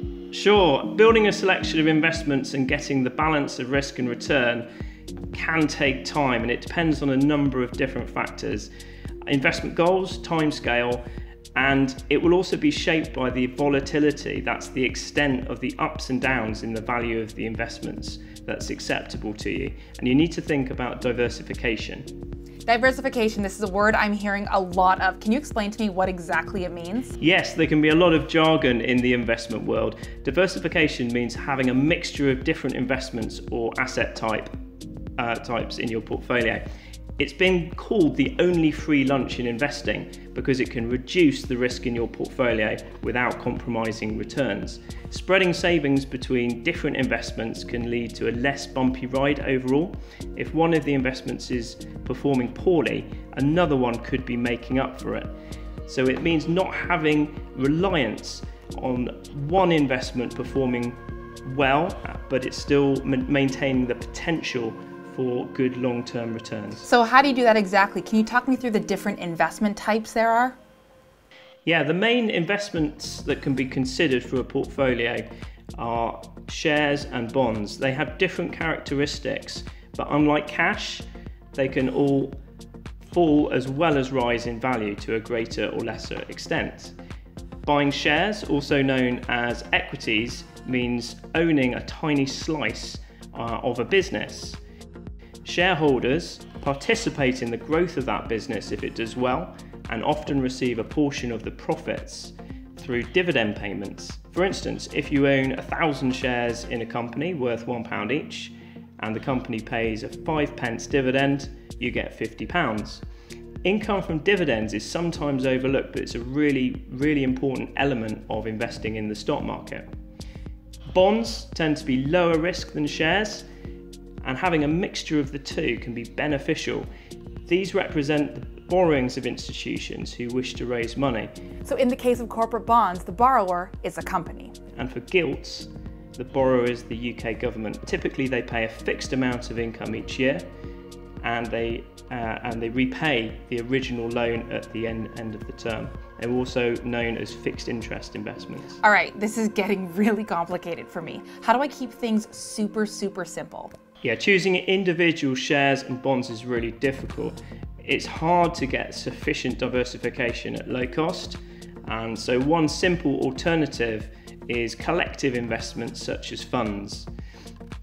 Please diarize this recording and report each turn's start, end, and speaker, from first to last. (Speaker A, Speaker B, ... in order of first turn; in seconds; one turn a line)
Speaker A: 0.3-4.7
Speaker A: 5.3-8.7
Speaker A: 9.2-11.0
Speaker A: 11.5-22.1
Speaker B: 22.6-27.2
Speaker A: 27.2-34.5
Speaker A: 35.2-36.6
Speaker A: 37.2-55.3
Speaker A: 55.9-66.9
Speaker B: 66.8-70.6
Speaker A: 71.7-82.4
Speaker A: 83.0-86.9
Speaker A: 87.6-94.6
Speaker A: 95.4-113.0
Speaker A: 113.6-119.9
Speaker A: 120.9-123.4
Speaker A: 124.2-126.9
Speaker A: 127.5-131.3
Speaker B: 131.6-134.5
Speaker A: 134.7-140.4
Speaker A: 141.2-148.8
Speaker B: 148.8-153.7
Speaker A: 154.0-167.1